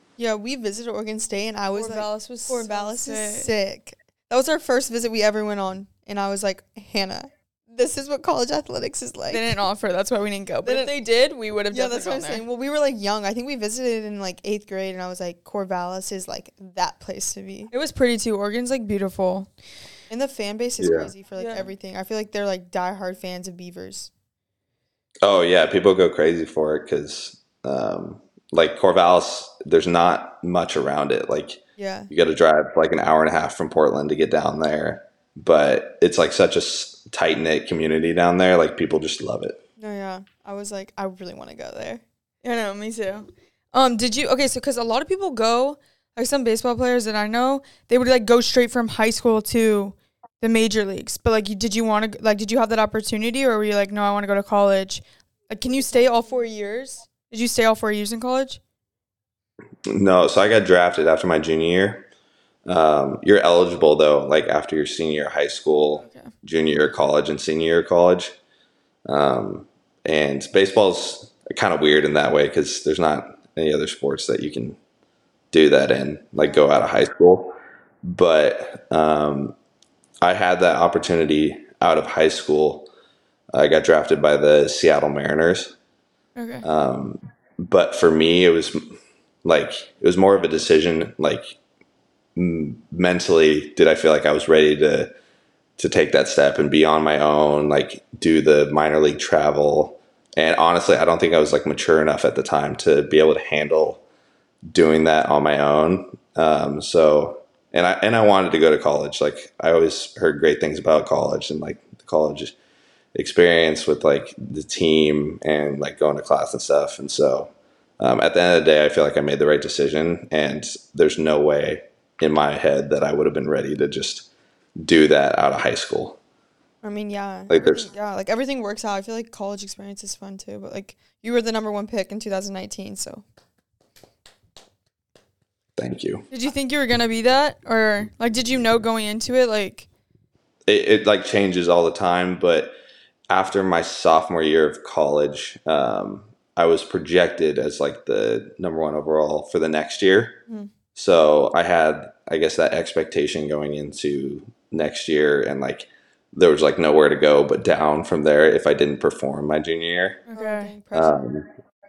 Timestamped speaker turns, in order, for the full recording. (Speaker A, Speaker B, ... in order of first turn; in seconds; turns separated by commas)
Speaker A: 0.2-9.5, Speaker B: 1.7-3.5, Speaker B: 9.3-12.4, Speaker A: 10.7-10.9, Speaker A: 11.7-17.7, Speaker B: 17.7-19.5, Speaker A: 20.1-24.1, Speaker C: 20.8-21.1, Speaker B: 21.4-21.7, Speaker C: 25.2-39.6, Speaker A: 31.8-32.1, Speaker A: 39.8-42.0, Speaker B: 42.4-58.6, Speaker A: 55.7-56.4, Speaker C: 59.9-62.1, Speaker C: 62.7-68.3, Speaker B: 66.0-66.3, Speaker C: 69.1-74.8, Speaker C: 75.5-79.6, Speaker C: 80.2-82.9, Speaker C: 83.5-85.8, Speaker B: 86.4-86.7, Speaker C: 86.6-88.9, Speaker C: 89.5-91.6, Speaker C: 92.4-95.1, Speaker C: 95.8-104.0, Speaker C: 104.7-112.5, Speaker C: 113.2-126.2, Speaker A: 126.8-133.2, Speaker C: 127.5-127.9, Speaker C: 135.8-136.3, Speaker B: 136.3-139.9, Speaker C: 140.7-142.7, Speaker C: 143.3-150.4, Speaker C: 150.9-160.2, Speaker A: 160.3-161.2, Speaker B: 160.3-160.7, Speaker C: 160.9-161.5